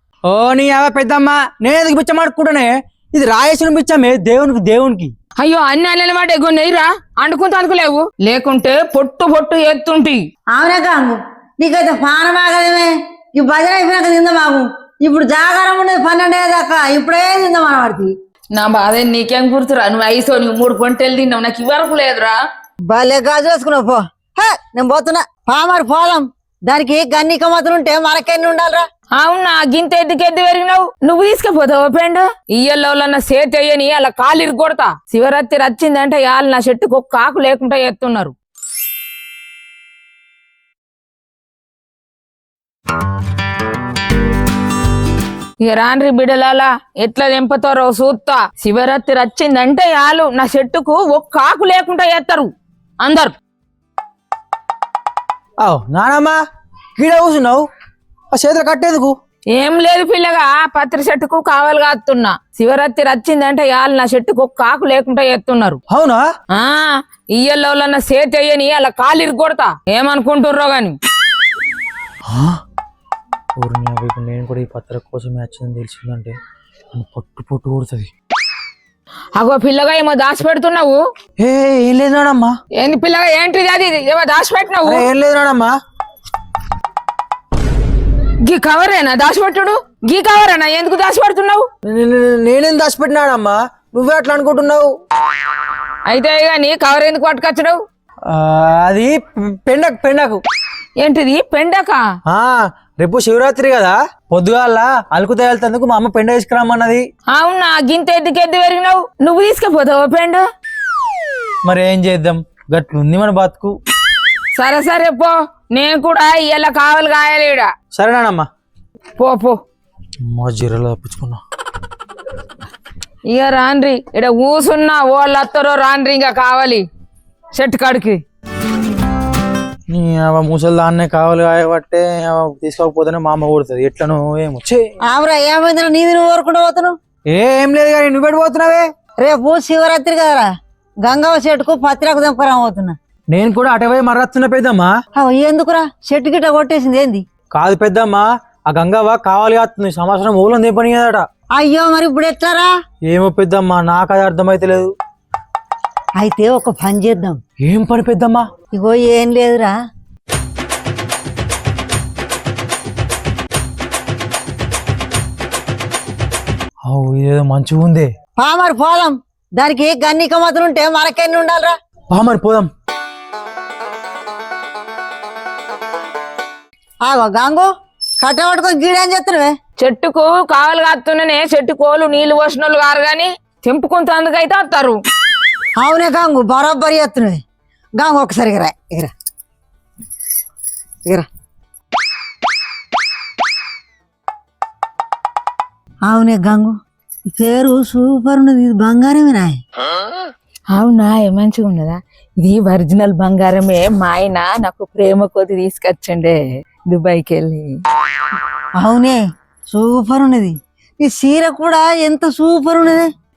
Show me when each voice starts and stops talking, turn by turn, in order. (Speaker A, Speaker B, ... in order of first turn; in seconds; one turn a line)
Speaker A: 0.3-5.1
Speaker B: 5.4-10.2
Speaker C: 10.5-18.1
Speaker B: 18.6-22.4
Speaker C: 22.9-28.8
Speaker B: 29.2-38.3
Speaker B: 45.6-52.5
Speaker B: 53.0-53.3
Speaker A: 55.6-56.4
Speaker A: 57.0-57.7
Speaker A: 58.3-59.1
Speaker B: 59.5-65.8
Speaker A: 65.9-66.2
Speaker B: 66.5-71.0
Speaker A: 72.2-72.6
Speaker A: 73.6-76.3
Speaker A: 76.9-78.1
Speaker B: 79.4-81.0
Speaker A: 81.4-82.6
Speaker B: 82.8-85.1
Speaker A: 84.8-85.7
Speaker B: 88.4-91.7
Speaker A: 91.9-94.9
Speaker B: 96.1-97.8
Speaker A: 98.3-100.4
Speaker B: 101.0-102.0
Speaker A: 102.3-107.1
Speaker B: 107.3-110.4
Speaker A: 111.7-113.8
Speaker B: 114.6-117.7
Speaker A: 117.9-118.5
Speaker B: 119.2-119.6
Speaker A: 120.2-121.4
Speaker B: 123.3-126.8
Speaker B: 127.5-128.2
Speaker A: 129.9-134.8
Speaker C: 135.1-137.0
Speaker A: 137.3-138.9
Speaker C: 139.2-140.5
Speaker C: 141.1-143.0
Speaker A: 143.3-144.9
Speaker C: 145.2-147.2
Speaker A: 147.5-151.3
Speaker C: 151.6-152.7
Speaker A: 153.1-154.9
Speaker C: 156.2-157.4
Speaker A: 157.6-158.5
Speaker C: 158.7-159.8
Speaker A: 166.9-168.1
Speaker C: 168.4-171.7
Speaker A: 172.1-172.7
Speaker C: 177.1-177.7
Speaker C: 178.2-179.6
Speaker B: 179.8-185.0
Speaker C: 185.8-187.4
Speaker C: 188.0-189.1
Speaker C: 196.1-196.8
Speaker C: 197.4-199.6
Speaker B: 200.7-207.8
Speaker C: 208.8-213.1